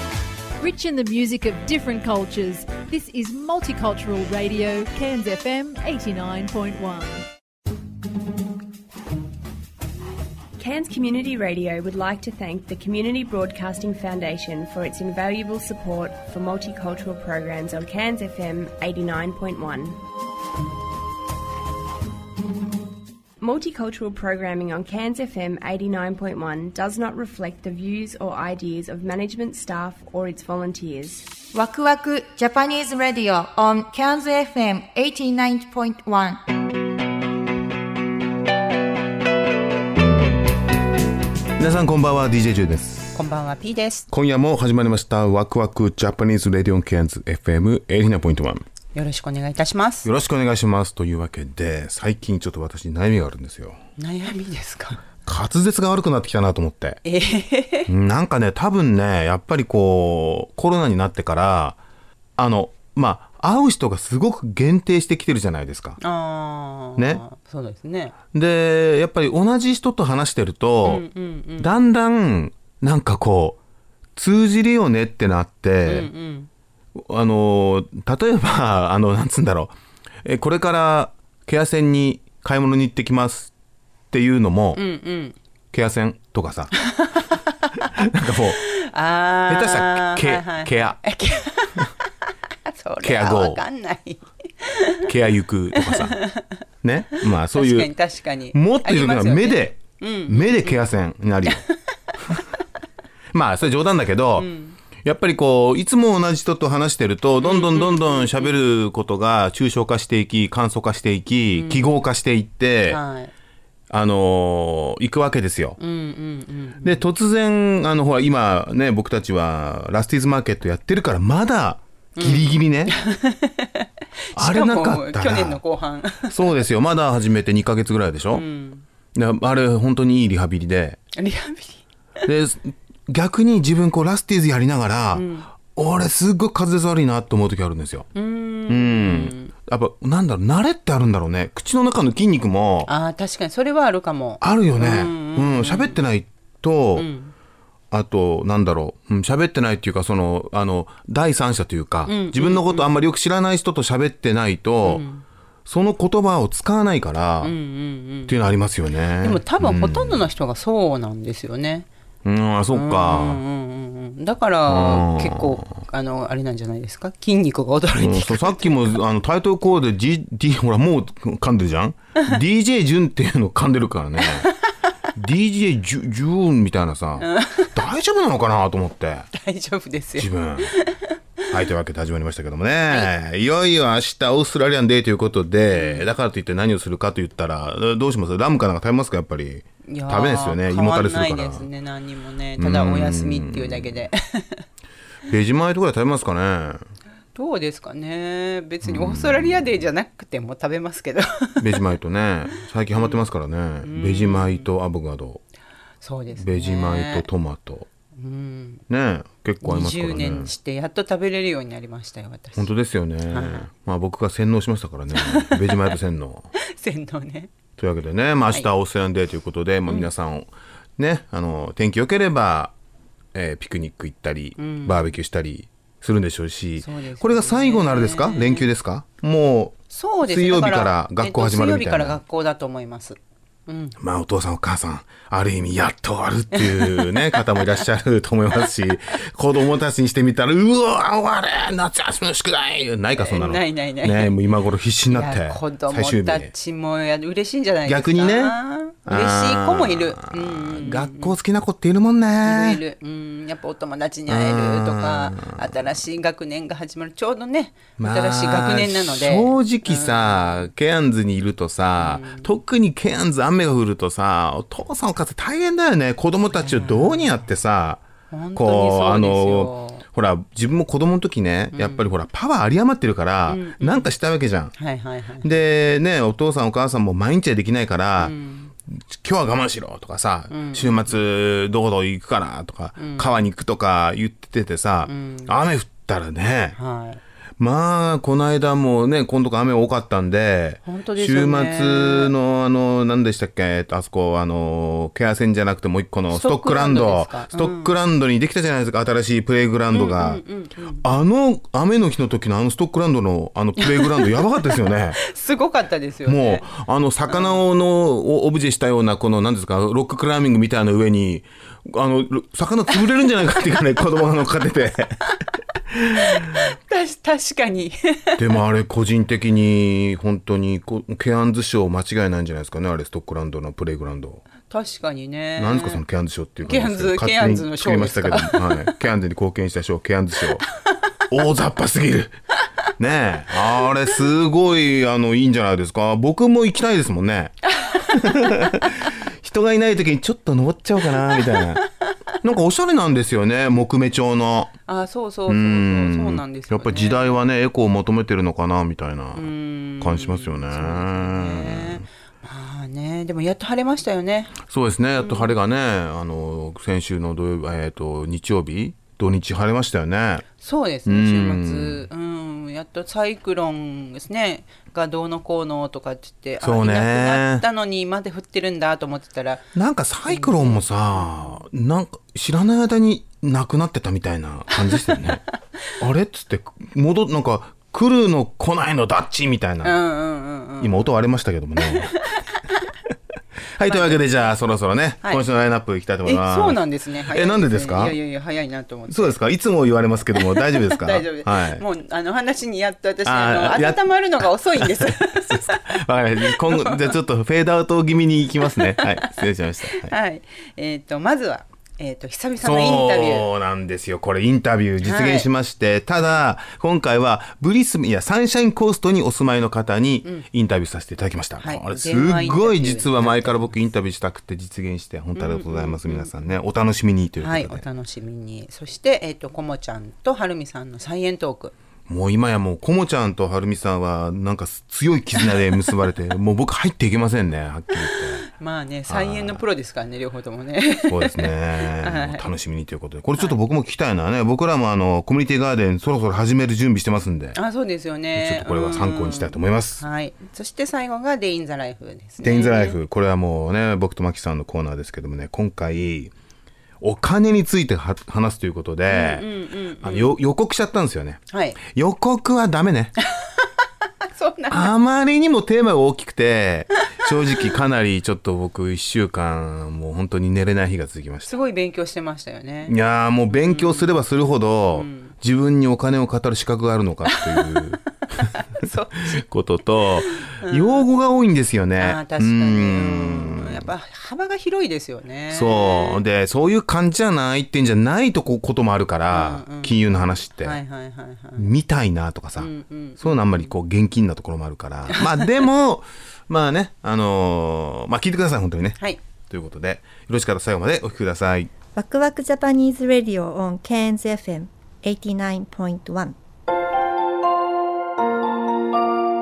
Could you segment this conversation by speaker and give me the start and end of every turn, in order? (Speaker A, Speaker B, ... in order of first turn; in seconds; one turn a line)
Speaker A: 0.6-7.2
Speaker B: 10.6-20.0
Speaker B: 23.4-31.2
Speaker C: 31.5-36.4
Speaker D: 41.6-43.2
Speaker E: 43.1-44.1
Speaker D: 44.1-48.6
Speaker E: 48.9-50.1
Speaker D: 50.0-53.8
Speaker E: 54.0-55.0
Speaker D: 55.2-57.0
Speaker E: 57.0-57.9
Speaker D: 57.9-61.8
Speaker D: 62.4-66.0
Speaker E: 66.0-68.1
Speaker D: 67.0-67.2
Speaker D: 68.3-71.0
Speaker E: 70.8-71.7
Speaker D: 71.6-73.6
Speaker D: 74.2-76.1
Speaker E: 75.8-76.5
Speaker D: 77.0-79.7
Speaker D: 80.2-83.5
Speaker D: 84.1-84.8
Speaker E: 84.7-85.3
Speaker D: 85.7-86.7
Speaker E: 86.8-87.5
Speaker D: 88.0-88.6
Speaker E: 88.7-91.9
Speaker D: 89.5-91.0
Speaker E: 92.7-95.1
Speaker D: 93.0-93.6
Speaker D: 95.0-96.2
Speaker E: 95.7-96.5
Speaker D: 96.8-97.9
Speaker E: 97.2-100.8
Speaker D: 98.5-101.6
Speaker E: 101.5-101.7
Speaker D: 103.3-104.5
Speaker E: 104.4-104.8
Speaker D: 105.0-113.0
Speaker E: 107.4-108.5
Speaker E: 111.5-111.9
Speaker E: 112.9-113.3
Speaker D: 113.9-115.8
Speaker E: 115.8-117.0
Speaker D: 116.8-122.9
Speaker E: 122.2-126.6
Speaker D: 124.3-125.6
Speaker D: 126.3-128.4
Speaker E: 128.3-128.8
Speaker D: 129.1-131.0
Speaker E: 131.2-131.8
Speaker D: 132.2-138.1
Speaker E: 135.1-135.5
Speaker E: 138.1-139.5
Speaker D: 138.7-142.9
Speaker E: 142.9-146.0
Speaker D: 144.4-147.1
Speaker E: 147.0-147.3
Speaker D: 147.9-155.0
Speaker E: 152.1-152.9
Speaker E: 154.8-155.2
Speaker D: 155.7-157.5
Speaker E: 157.4-158.4
Speaker D: 158.2-160.2
Speaker E: 159.2-161.8
Speaker D: 162.2-163.4
Speaker E: 162.7-168.9
Speaker D: 164.7-165.6
Speaker D: 167.9-174.5
Speaker D: 175.2-179.3
Speaker E: 177.2-177.7
Speaker E: 179.4-181.0
Speaker D: 180.2-180.7
Speaker D: 181.5-191.7
Speaker E: 185.7-186.1
Speaker E: 189.9-194.6
Speaker D: 192.6-194.1
Speaker D: 195.3-196.8
Speaker E: 197.3-201.7
Speaker D: 198.8-199.6
Speaker D: 201.6-205.4
Speaker E: 202.9-203.2
Speaker E: 203.8-204.6
Speaker E: 206.0-207.2
Speaker D: 206.3-207.9
Speaker E: 208.2-208.8
Speaker D: 208.9-210.5
Speaker E: 209.6-212.7
Speaker D: 212.6-216.5
Speaker E: 213.3-213.6
Speaker E: 215.1-215.9
Speaker E: 216.7-217.5
Speaker D: 217.8-222.7
Speaker D: 223.3-232.2
Speaker E: 224.6-225.1
Speaker E: 226.8-228.7
Speaker E: 229.9-233.9
Speaker D: 234.0-246.5
Speaker E: 236.5-237.4
Speaker E: 243.1-244.3
Speaker E: 245.1-251.3
Speaker D: 247.8-248.5
Speaker D: 249.1-252.8
Speaker E: 252.4-260.7
Speaker D: 254.3-255.7
Speaker D: 258.0-268.0
Speaker E: 262.0-262.5
Speaker E: 266.5-267.3
Speaker E: 268.3-270.0
Speaker D: 268.5-274.7
Speaker E: 271.7-272.1
Speaker E: 273.5-274.1
Speaker E: 274.8-275.5
Speaker D: 275.4-278.3
Speaker E: 278.2-278.7
Speaker D: 279.0-286.8
Speaker E: 280.5-281.1
Speaker E: 283.0-283.4
Speaker E: 285.0-285.5
Speaker E: 286.8-287.2
Speaker D: 287.6-300.4
Speaker E: 290.9-292.3
Speaker E: 296.3-297.9
Speaker E: 299.9-301.0
Speaker D: 301.0-305.2
Speaker E: 303.8-306.7
Speaker D: 306.2-315.1
Speaker E: 307.3-307.6
Speaker D: 315.9-316.4
Speaker E: 316.3-318.6
Speaker D: 318.4-324.4
Speaker E: 324.7-326.0
Speaker D: 325.6-330.6
Speaker E: 326.6-328.9
Speaker D: 331.3-332.3
Speaker D: 333.0-341.8
Speaker D: 342.4-344.7
Speaker E: 344.9-347.4
Speaker D: 345.5-349.5
Speaker E: 349.3-354.6
Speaker D: 350.0-352.0
Speaker D: 354.6-360.4
Speaker E: 355.2-355.5
Speaker E: 360.6-369.6
Speaker D: 361.1-362.1
Speaker D: 366.6-367.6
Speaker D: 369.8-375.4
Speaker E: 370.3-371.6
Speaker E: 374.7-375.4
Speaker D: 376.0-379.9
Speaker E: 379.8-381.1
Speaker D: 380.8-382.2
Speaker D: 383.8-386.8
Speaker E: 383.8-384.3
Speaker E: 386.2-389.4
Speaker D: 387.3-388.1
Speaker D: 389.1-391.8
Speaker E: 390.4-395.9
Speaker D: 393.2-394.0
Speaker D: 394.8-400.1
Speaker E: 396.5-397.1
Speaker E: 398.8-403.5
Speaker D: 402.6-417.8
Speaker E: 405.0-405.5
Speaker E: 411.6-413.7
Speaker E: 415.4-416.3
Speaker E: 417.4-421.7
Speaker D: 422.1-428.4
Speaker E: 428.6-432.4
Speaker D: 429.1-429.6
Speaker D: 431.1-437.6
Speaker E: 437.6-443.0
Speaker D: 438.3-440.0
Speaker D: 442.4-446.3
Speaker D: 447.0-449.5
Speaker E: 449.1-450.4
Speaker D: 450.0-453.1
Speaker E: 451.5-451.8
Speaker E: 454.3-454.9
Speaker D: 454.7-461.5
Speaker E: 461.4-462.9
Speaker D: 462.9-468.0
Speaker E: 463.5-464.1
Speaker E: 464.9-465.3
Speaker E: 467.3-467.8
Speaker E: 468.4-469.4
Speaker D: 469.3-473.9
Speaker E: 470.2-471.1
Speaker E: 472.0-476.2
Speaker D: 475.5-480.8
Speaker E: 479.3-480.0
Speaker E: 480.6-481.7
Speaker D: 481.6-491.7
Speaker E: 482.6-483.7
Speaker E: 485.1-485.5
Speaker F: 491.9-496.3